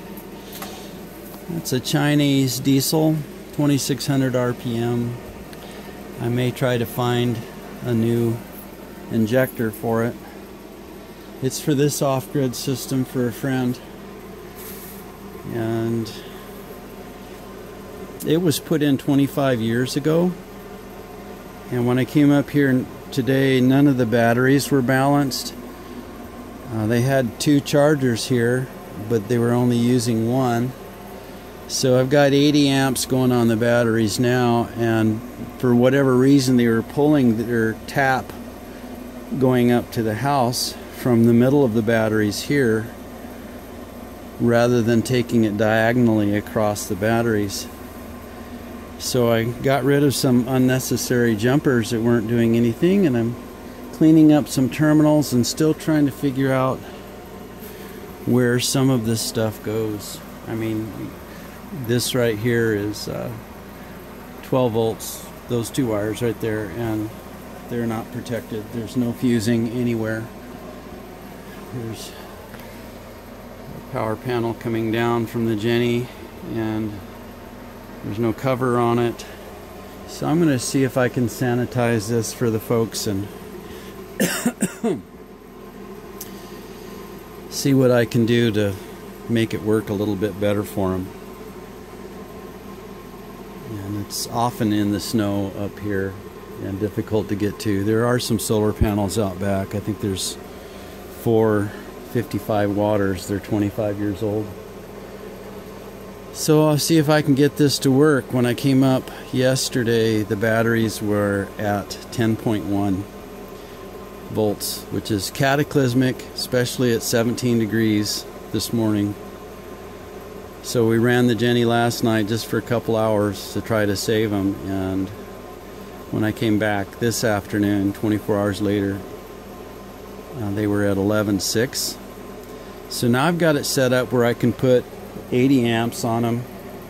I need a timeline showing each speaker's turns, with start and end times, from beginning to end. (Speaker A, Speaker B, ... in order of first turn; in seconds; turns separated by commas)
Speaker A: 1.5-5.2, Speaker A: 6.2-8.4, Speaker A: 9.1-10.2, Speaker A: 11.4-13.8, Speaker A: 15.4-16.2, Speaker A: 18.2-20.3, Speaker A: 21.7-25.6, Speaker A: 26.7-30.7, Speaker A: 31.7-38.3, Speaker A: 39.3-42.9, Speaker A: 44.4-47.7, Speaker A: 49.0-53.4, Speaker A: 53.9-56.8, Speaker A: 58.2-61.1, Speaker A: 61.7-63.4, Speaker A: 64.4-67.1, Speaker A: 67.7-70.3, Speaker A: 71.7-72.2, Speaker A: 73.7-77.0, Speaker A: 78.0-79.3, Speaker A: 80.1-83.3, Speaker A: 84.2-85.0, Speaker A: 87.5-91.1, Speaker A: 93.7-100.4, Speaker A: 101.1-104.5, Speaker A: 106.3-113.1, Speaker A: 114.3-119.2, Speaker A: 120.6-125.1, Speaker A: 126.1-129.0, Speaker A: 130.3-132.0, Speaker A: 132.9-136.5